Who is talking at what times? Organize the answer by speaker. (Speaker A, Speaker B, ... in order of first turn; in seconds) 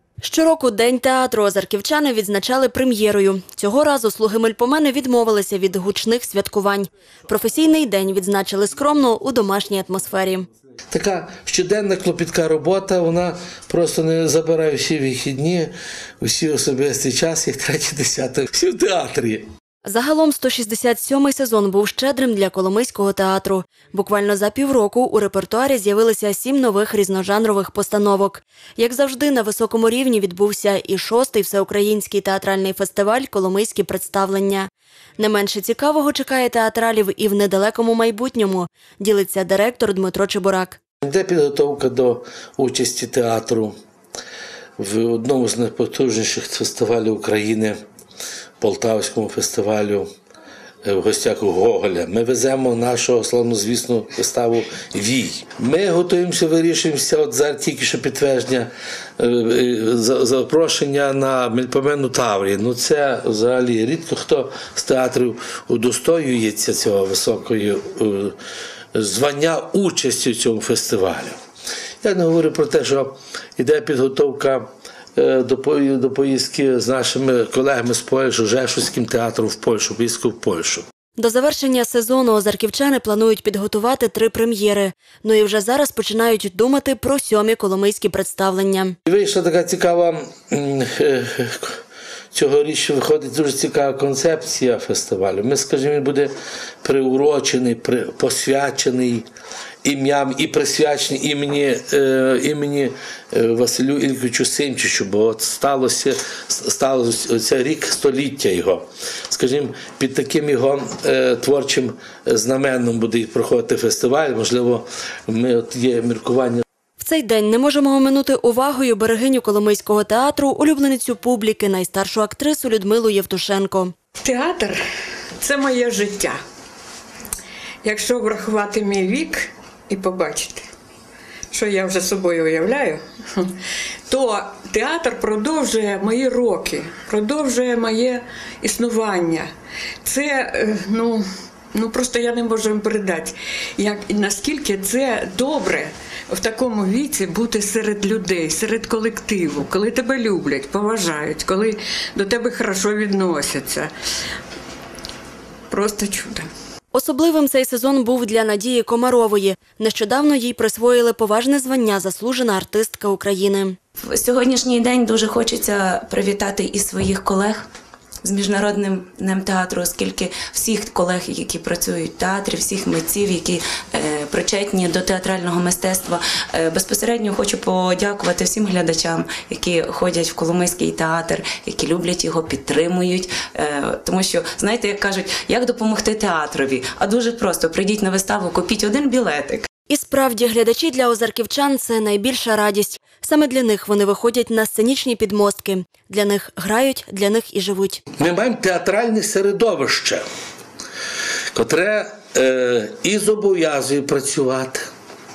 Speaker A: 0.2-10.5, 19.9-40.8, 81.2-89.0, 117.0-123.9, 156.9-163.8, 189.9-198.0
Speaker B: 10.9-19.5, 41.0-43.8, 44.8-47.8, 48.6-50.1, 50.8-68.4, 68.9-71.4, 72.0-80.9, 89.1-91.8, 92.3-99.3, 99.8-116.6, 198.2-200.2, 201.5-204.9
Speaker C: 124.2-124.8, 125.4-126.4, 127.8-130.7, 131.5-133.5, 134.1-139.5, 140.1-153.9, 155.7-156.5
Speaker D: 164.0-167.7, 168.2-189.7